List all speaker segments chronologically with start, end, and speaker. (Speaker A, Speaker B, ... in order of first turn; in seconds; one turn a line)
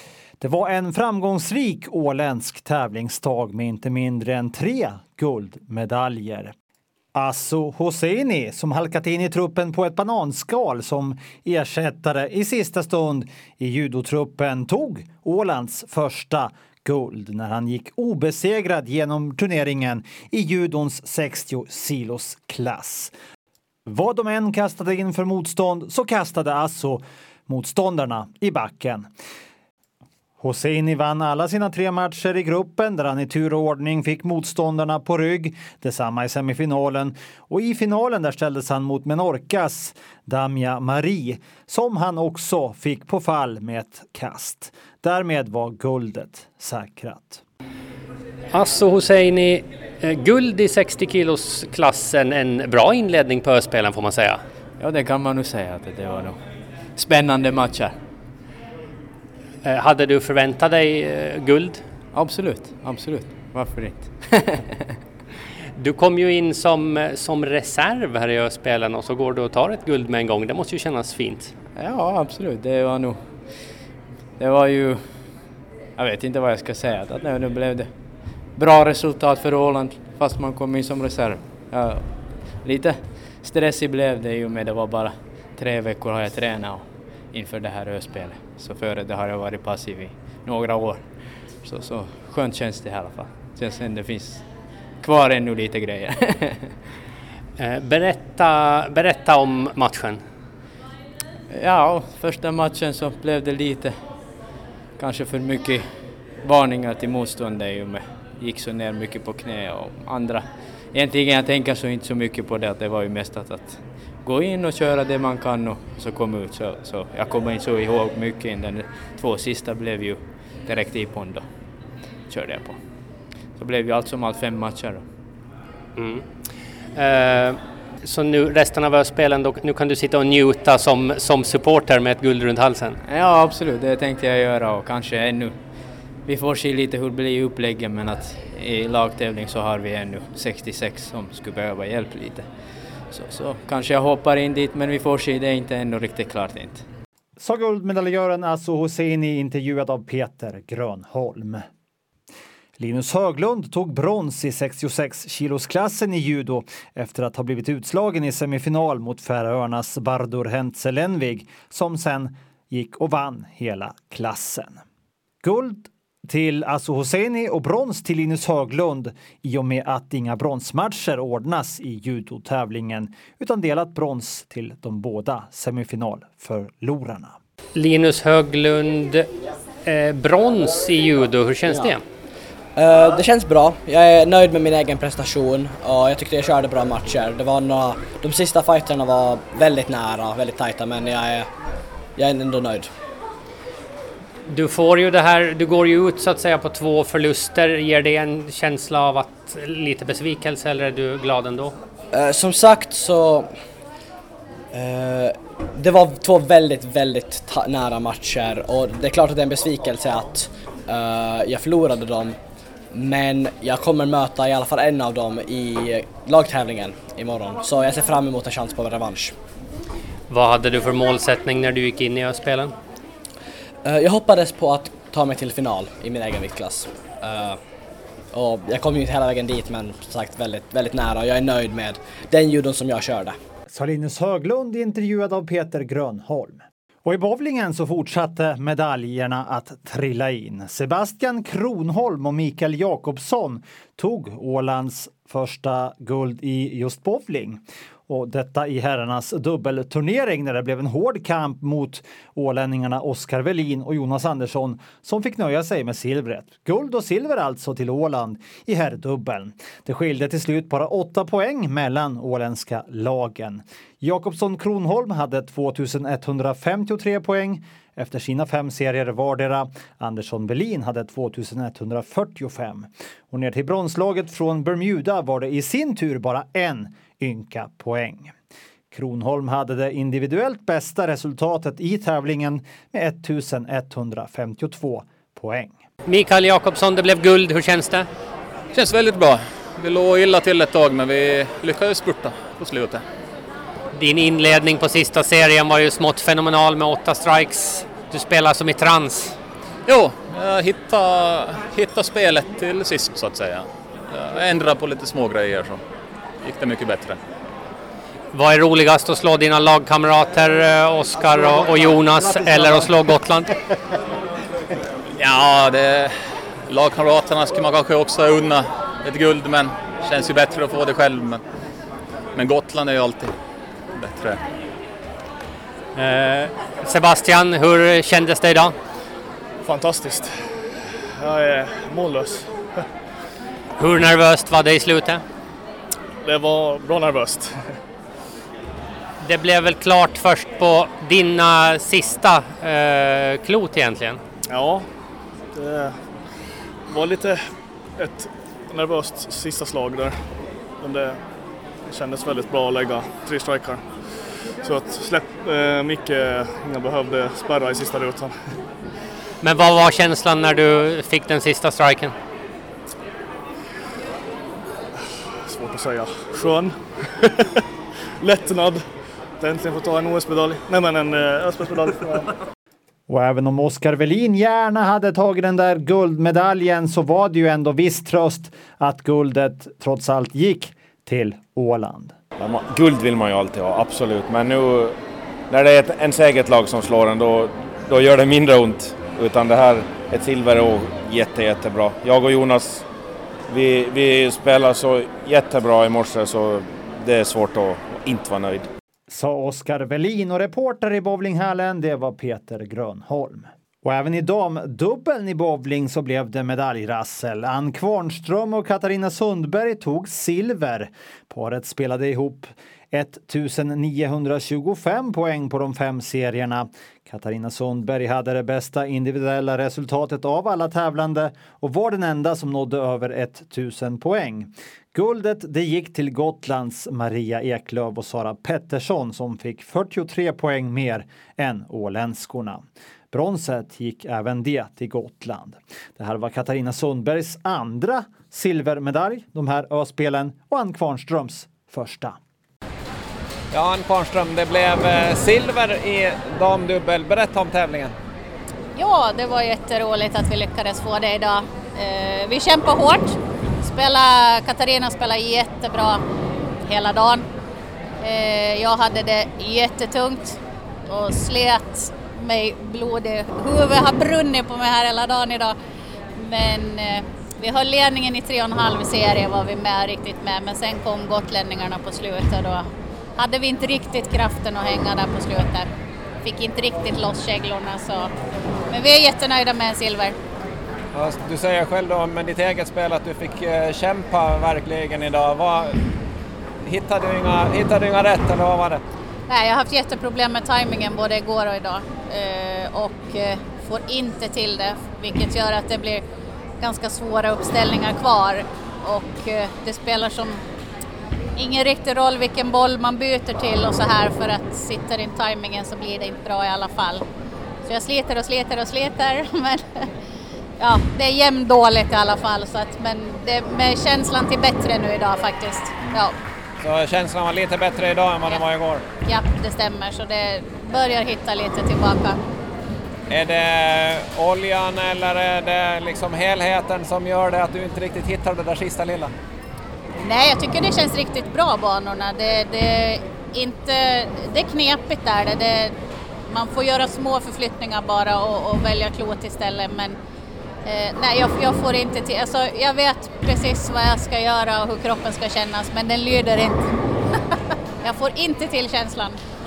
Speaker A: 0.4-6.5
Speaker A: 7.2-23.1
Speaker A: 23.9-29.1
Speaker A: 30.4-47.4
Speaker B: 48.5-54.4
Speaker C: 54.8-56.4
Speaker C: 56.9-58.0
Speaker B: 59.6-61.9
Speaker C: 62.1-65.0
Speaker B: 65.8-71.5
Speaker C: 71.7-96.8
Speaker B: 97.6-100.2
Speaker C: 101.5-125.2
Speaker B: 126.0-133.0
Speaker C: 133.0-146.8
Speaker A: 147.4-151.6
Speaker A: 152.8-164.8
Speaker A: 165.4-177.4
Speaker B: 177.8-179.3
Speaker B: 179.8-182.0
Speaker D: 181.7-181.9
Speaker D: 182.8-191.5
Speaker D: 192.2-192.9
Speaker B: 194.5-201.8
Speaker D: 202.1-203.5
Speaker D: 204.7-212.4
Speaker D: 212.9-219.4
Speaker B: 220.3-222.7
Speaker D: 223.8-227.6
Speaker D: 228.3-233.4
Speaker A: 233.7-278.3
Speaker A: 278.9-285.8
Speaker B: 286.1-288.1
Speaker E: 288.7-293.0
Speaker B: 293.9-299.4
Speaker E: 299.9-305.8
Speaker E: 306.4-307.2
Speaker B: 308.3-313.5
Speaker E: 315.1-321.4
Speaker E: 322.3-323.4
Speaker E: 323.9-324.4
Speaker B: 325.9-328.7
Speaker F: 329.6-330.4
Speaker F: 331.2-332.6
Speaker B: 333.8-335.2
Speaker F: 336.2-337.6
Speaker B: 339.2-344.2
Speaker F: 344.5-344.9
Speaker F: 345.5-346.2
Speaker F: 346.9-351.2
Speaker F: 351.9-358.4
Speaker B: 359.4-362.1
Speaker F: 365.5-367.1
Speaker F: 368.2-368.8
Speaker F: 369.4-372.2
Speaker A: 373.1-382.1
Speaker G: 382.4-384.9
Speaker G: 385.5-392.8
Speaker G: 393.5-398.7
Speaker A: 399.1-442.2
Speaker H: 443.5-447.9
Speaker I: 448.8-456.0
Speaker I: 456.7-457.3
Speaker I: 458.0-465.6
Speaker I: 466.2-475.7
Speaker I: 476.2-478.1
Speaker I: 478.7-480.2
Speaker H: 480.9-485.8
Speaker H: 486.6-488.8
Speaker I: 489.3-496.0
Speaker I: 496.6-500.4
Speaker I: 501.4-507.1
Speaker I: 507.6-509.9
Speaker I: 510.6-516.2
Speaker H: 516.6-518.8
Speaker I: 519.1-522.2
Speaker H: 523.1-529.1
Speaker I: 530.0-535.8
Speaker I: 536.3-540.0
Speaker I: 540.6-546.8
Speaker I: 547.3-549.2